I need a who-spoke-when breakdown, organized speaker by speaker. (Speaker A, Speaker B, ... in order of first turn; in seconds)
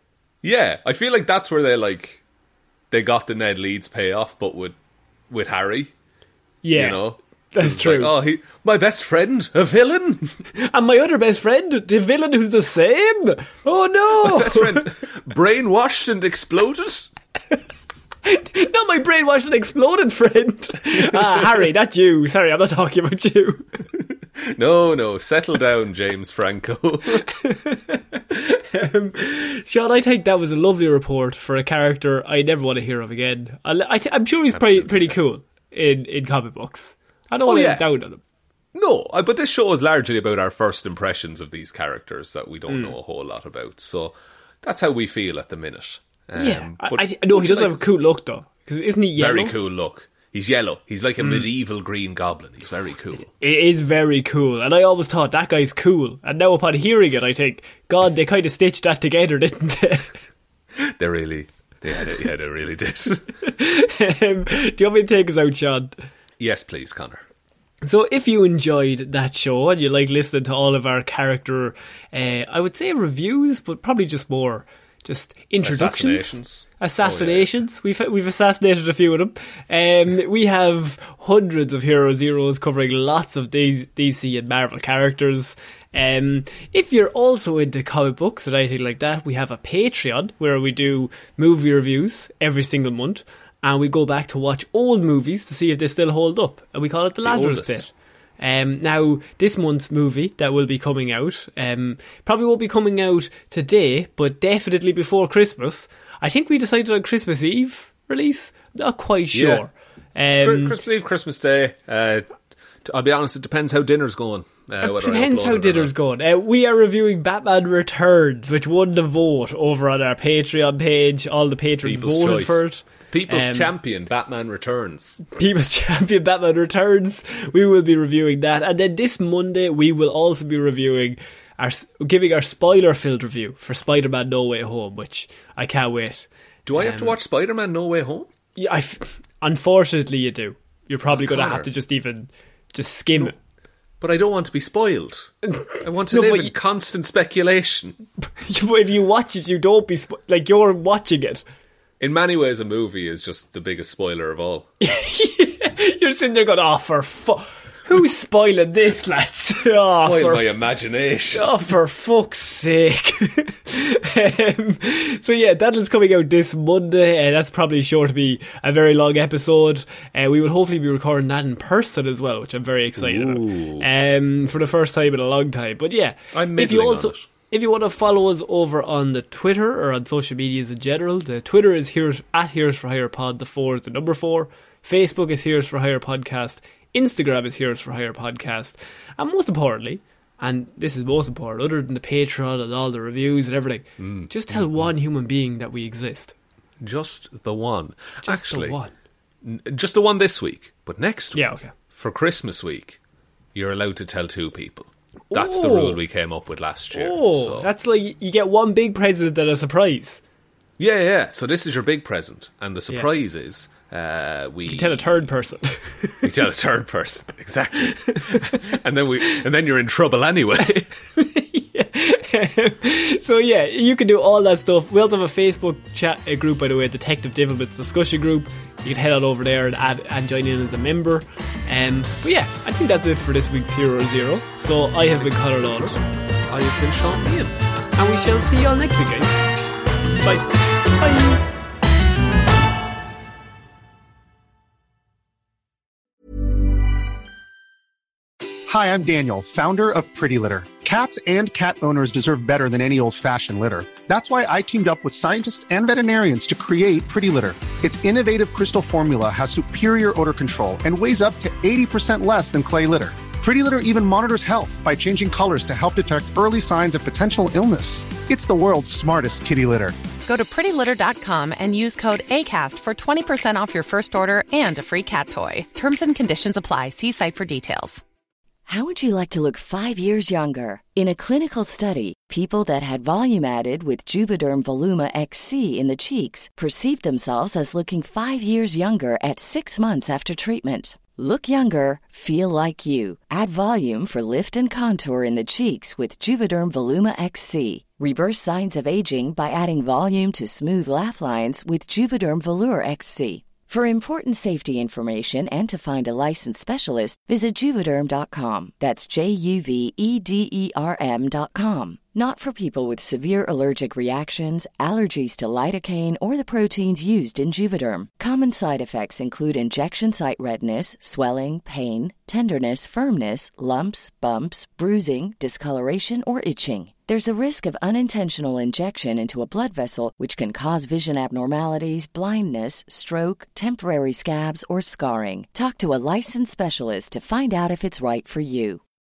Speaker A: 0.4-2.2, 2.9-4.8, 5.3-5.9, 6.7-10.4, 14.2-17.1, 21.1-21.4, 24.5-27.3, 34.5-35.2, 37.5-37.9, 38.7-47.9, 49.2-53.3, 60.8-63.2, 66.4-67.2, 75.6-77.6, 97.2-97.8, 109.3-109.6, 110.4-112.3, 112.8-115.9, 121.8-125.2, 136.7-138.3, 141.1-141.7, 144.0-148.0, 152.0-154.7, 159.9-161.5, 173.0-173.9, 176.3-177.2, 194.0-194.9, 196.8-198.8, 199.4-203.0, 203.5-207.7, 210.8-215.1, 216.2-220.9, 236.5-237.5
Speaker B: 6.6-7.0, 7.5-8.1, 10.6-14.9, 18.2-23.8, 27.3-38.2, 42.7-43.0, 46.4-49.5, 51.2-51.5, 53.2-60.1, 63.4-66.0, 67.8-110.8, 114.8-123.7, 125.3-137.2, 138.6-143.3, 146.1-146.5, 148.4-151.4, 154.8-160.4, 161.3-196.3, 198.2-198.9, 201.3-201.7, 205.3-206.0, 206.9-210.2, 214.7-216.2, 218.3-218.6, 221.1-236.0, 238.0-239.4, 240.2-241.4
Speaker C: 248.7-269.9
Speaker D: 270.2-278.0
Speaker E: 278.7-338.8